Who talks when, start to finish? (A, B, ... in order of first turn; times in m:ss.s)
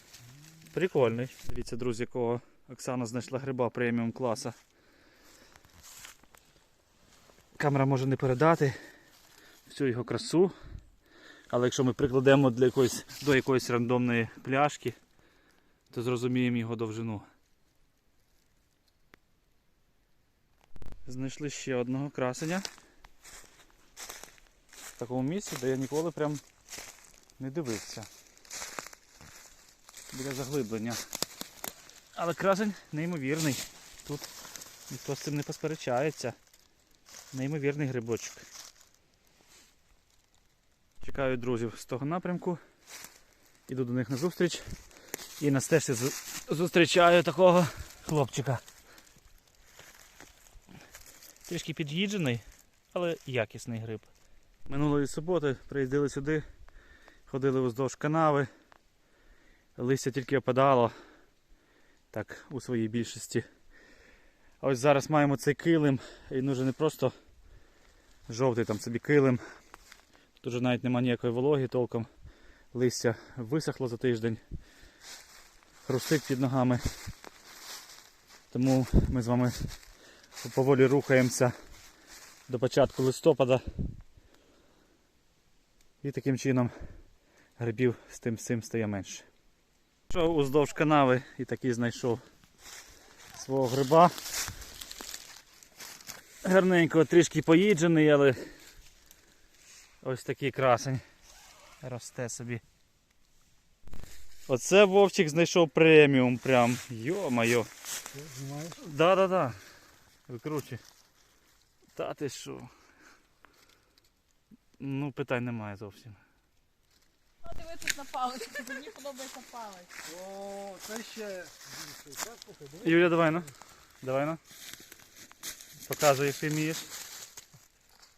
0:00.7-0:04.6 A
0:07.6-0:08.8 A
0:09.7-0:10.5 A
0:11.5-0:15.0 A
0:15.9-0:17.2 A
0:21.0-0:22.7 A
0:25.0-0:26.4 A
0:27.4-0:28.1 A
0:30.1-0:31.0 A
0:32.1-0:34.3 A
0:34.9-0:36.4 A
0:37.3-0:38.4 A
0:41.0-0:42.6 A
0:43.7-0:44.6 A
0:45.4-0:48.6 A
0:51.5-0:54.1 A
0:54.7-0:56.4 A
0:57.3-0:58.5 A
0:59.8-1:00.9 A
1:02.1-1:03.4 A
1:04.6-1:07.1 A
1:08.3-1:09.4 A
1:10.4-1:12.1 A
1:12.7-1:14.4 A
1:15.8-1:16.8 A
1:18.5-1:19.7 A
1:20.4-1:21.5 A
1:22.5-1:23.6 A
1:26.0-1:26.7 A
1:27.6-1:29.2 A
1:30.1-1:32.2 A
1:33.3-1:34.1 A
1:36.4-1:38.4 A
1:40.0-1:41.0 A
1:41.8-1:42.6 A
1:44.5-1:47.7 A
1:48.2-1:48.7 B
1:48.8-1:49.6 A
1:50.3-1:50.8 A
1:51.9-1:52.7 A
1:54.8-1:56.2 A
1:57.4-1:59.8 C
2:00.0-2:03.0 B
2:02.8-2:04.4 A
2:05.8-2:06.9 A